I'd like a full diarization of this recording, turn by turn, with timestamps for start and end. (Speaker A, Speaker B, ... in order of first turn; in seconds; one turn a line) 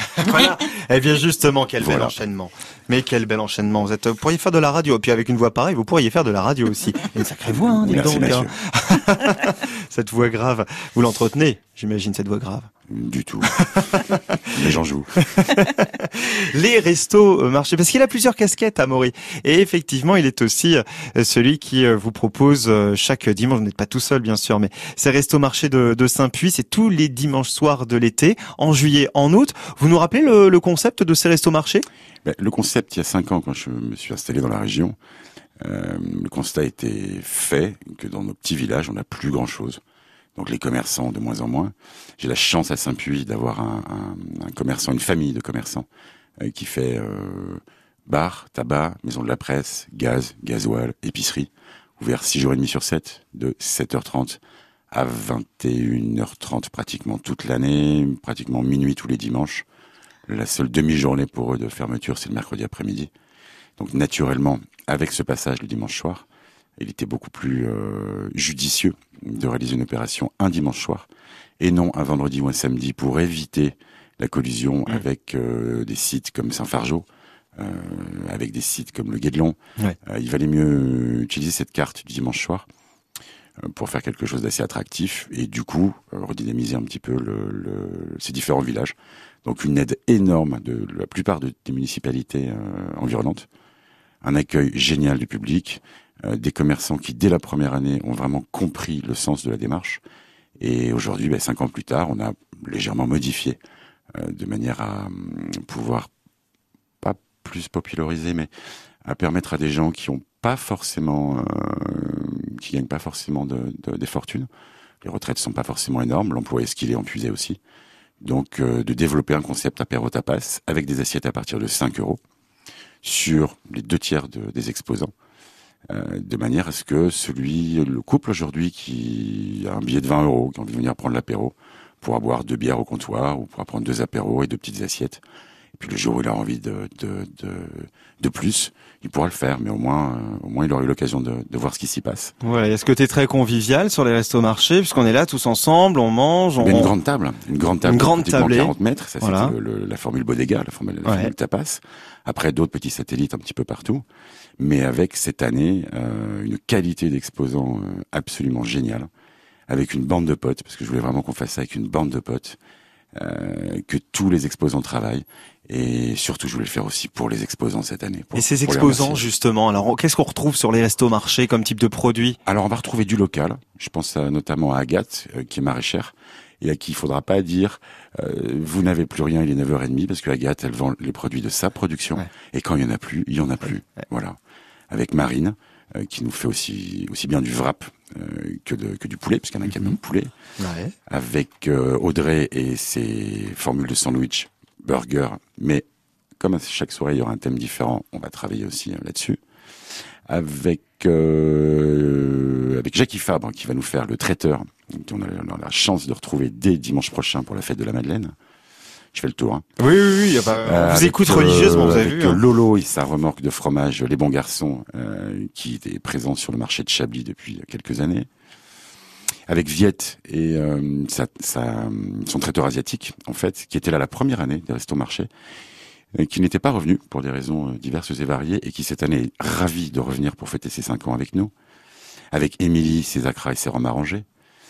Speaker A: 0.1-12.7
Speaker B: 1.8-2.1
Speaker B: 7.5-8.5
Speaker B: 12.9-15.6
Speaker A: 13.6-14.5
Speaker A: 15.3-31.9
Speaker B: 32.2-35.0
Speaker B: 35.6-39.8
Speaker B: 40.4-45.9
Speaker B: 46.4-54.4
Speaker B: 54.9-59.6
Speaker B: 60.3-63.1
Speaker B: 63.8-66.3
Speaker B: 66.8-71.1
Speaker B: 71.6-82.7
Speaker B: 83.6-93.5
Speaker B: 94.2-100.0
Speaker B: 100.6-103.6
Speaker B: 104.1-106.1
Speaker B: 107.0-108.5
Speaker B: 109.0-114.5
Speaker B: 115.0-117.6
Speaker B: 118.2-122.2
Speaker B: 123.0-125.1
Speaker B: 125.9-135.2
Speaker B: 135.8-142.3
Speaker A: 142.4-146.9
Speaker B: 146.6-154.1
Speaker A: 147.8-149.5
Speaker A: 151.1-151.3
Speaker B: 154.6-159.1
Speaker B: 159.7-162.6
Speaker B: 163.2-169.2
Speaker A: 168.3-172.4
Speaker B: 172.5-184.4
Speaker B: 184.9-190.3
Speaker A: 190.6-190.9
Speaker B: 191.1-195.9
Speaker B: 196.4-199.4
Speaker B: 200.2-208.3
Speaker B: 209.1-209.7
Speaker A: 209.8-212.4
Speaker B: 210.6-218.3
Speaker B: 219.5-225.3
Speaker B: 226.2-231.5
Speaker B: 232.3-234.3